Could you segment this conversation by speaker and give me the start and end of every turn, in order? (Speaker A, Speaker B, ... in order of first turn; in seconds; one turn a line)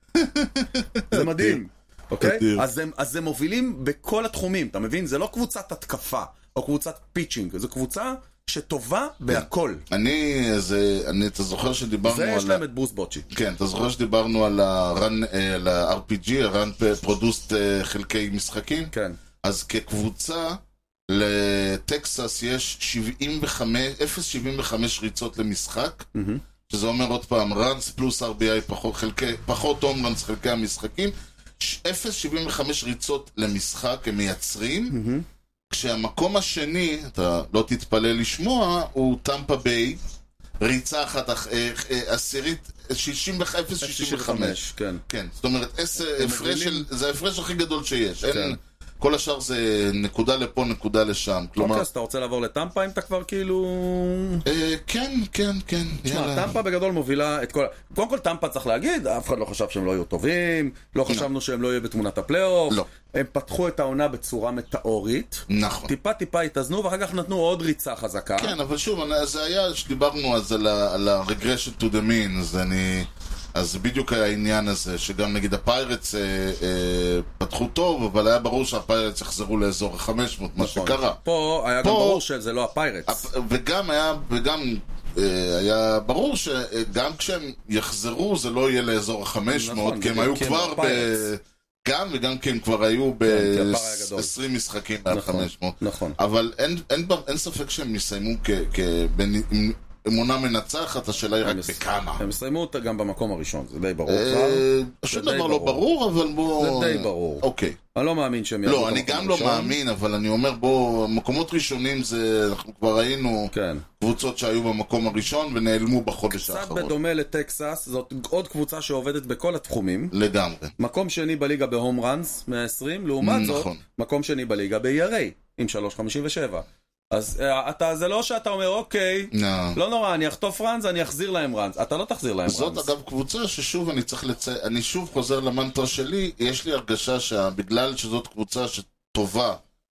Speaker A: 0.2-1.6
Speaker B: 1.1-9.8
Speaker A: 2.2-2.6
Speaker A: 9.3-12.6
Speaker B: 12.0-13.3
Speaker A: 13.3-18.9
Speaker B: 18.9-19.2
Speaker A: 19.4-26.1
Speaker B: 26.1-26.4
Speaker A: 26.7-35.0
Speaker B: 34.9-35.2
Speaker A: 35.7-40.0
Speaker A: 40.6-51.9
Speaker B: 43.8-45.0
Speaker B: 46.0-46.9
Speaker B: 48.3-48.6
Speaker B: 51.6-54.4
Speaker A: 54.4-56.5
Speaker B: 56.0-68.6
Speaker A: 65.5-65.9
Speaker A: 68.4-81.2
Speaker B: 80.6-83.3
Speaker A: 81.8-82.2
Speaker A: 83.1-102.2
Speaker B: 89.5-91.3
Speaker B: 93.3-94.3
Speaker B: 95.1-96.2
Speaker B: 101.4-105.8
Speaker A: 104.1-107.8
Speaker B: 106.6-109.8
Speaker A: 108.6-116.9
Speaker B: 113.5-113.8
Speaker B: 116.3-120.1
Speaker A: 120.1-120.7
Speaker B: 120.8-132.9
Speaker A: 123.2-123.8
Speaker A: 129.3-129.8
Speaker A: 132.4-139.6